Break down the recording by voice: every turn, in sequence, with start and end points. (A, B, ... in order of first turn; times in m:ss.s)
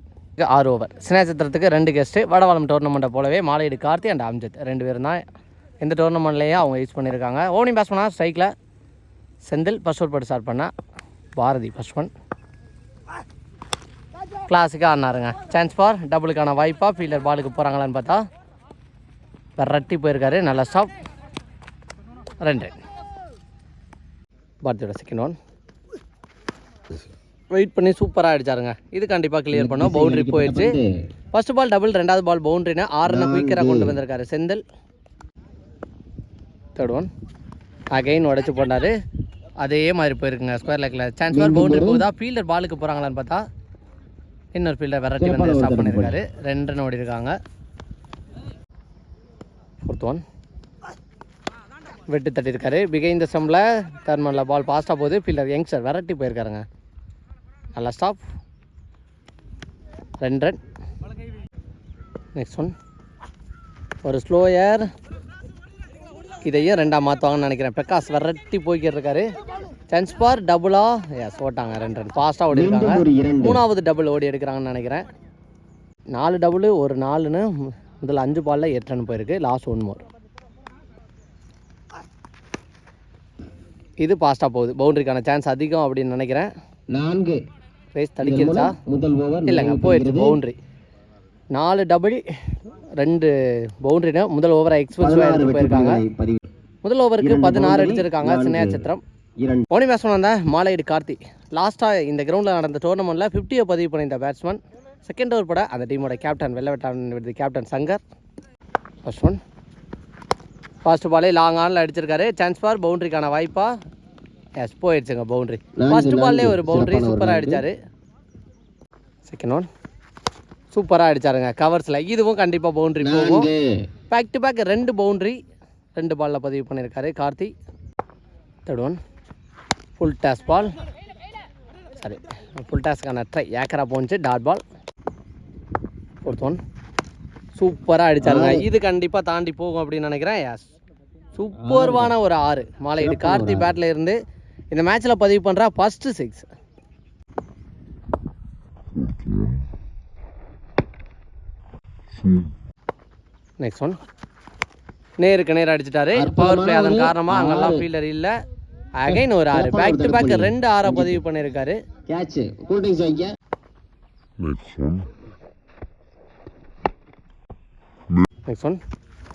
0:00.4-0:05.2 A
0:05.8-0:08.5 A
0:09.5-0:10.7 A
0:11.4-0:12.1 A
0:14.5-0:18.2 A
0:19.6-0:20.9 A
0:22.4-0:22.8 A
0:24.6-0:25.4 A
0:27.5-0:30.8 A
0:29.5-0:30.8 B
0:31.3-0:34.6 A
0:33.0-0:34.0 B
0:36.8-0:37.1 A
0:37.9-0:38.9 A
0:39.6-0:43.4 A
0:41.3-0:42.0 B
0:44.5-0:47.3 A
0:45.2-0:46.2 B
0:49.8-0:50.2 A
0:52.1-0:56.6 A
0:57.7-0:58.2 A
1:00.2-1:00.6 A
1:02.4-1:02.7 A
1:04.0-1:04.9 A
1:06.4-1:09.2 A
1:09.9-1:15.1 A
1:12.5-1:13.6 B
1:16.1-1:17.5 A
1:18.0-1:20.0 A
1:24.0-1:26.5 A
1:26.9-1:27.4 B
1:27.9-1:28.8 A
1:28.2-1:30.4 B
1:29.4-1:30.6 A
1:31.5-1:32.2 A
1:33.0-1:33.3 A
1:33.8-1:36.0 A
1:35.0-1:36.4 B
1:36.8-1:39.0 A
1:37.2-1:38.8 B
1:39.4-1:39.7 B
1:39.7-1:48.0 A
1:49.0-1:49.4 A
1:50.8-1:53.7 A
1:54.6-1:57.8 A
1:55.8-1:57.6 B
1:59.2-1:59.7 A
2:00.7-2:03.5 A
2:03.0-2:03.6 B
2:04.1-2:05.4 A
2:05.9-2:07.5 A
2:08.7-2:09.0 A
2:10.0-2:10.7 A
2:12.0-2:14.6 A
2:16.2-2:16.6 A
2:17.6-2:20.6 A
2:18.2-2:18.7 B
2:21.3-2:24.2 A
2:21.5-2:22.2 B
2:23.0-2:23.7 B
2:24.7-2:26.5 A
2:33.6-2:34.0 A
2:35.2-2:38.3 A
2:36.2-2:37.8 B
2:39.0-2:41.8 A
2:39.1-2:41.2 B
2:42.1-2:43.3 B
2:48.5-2:48.8 A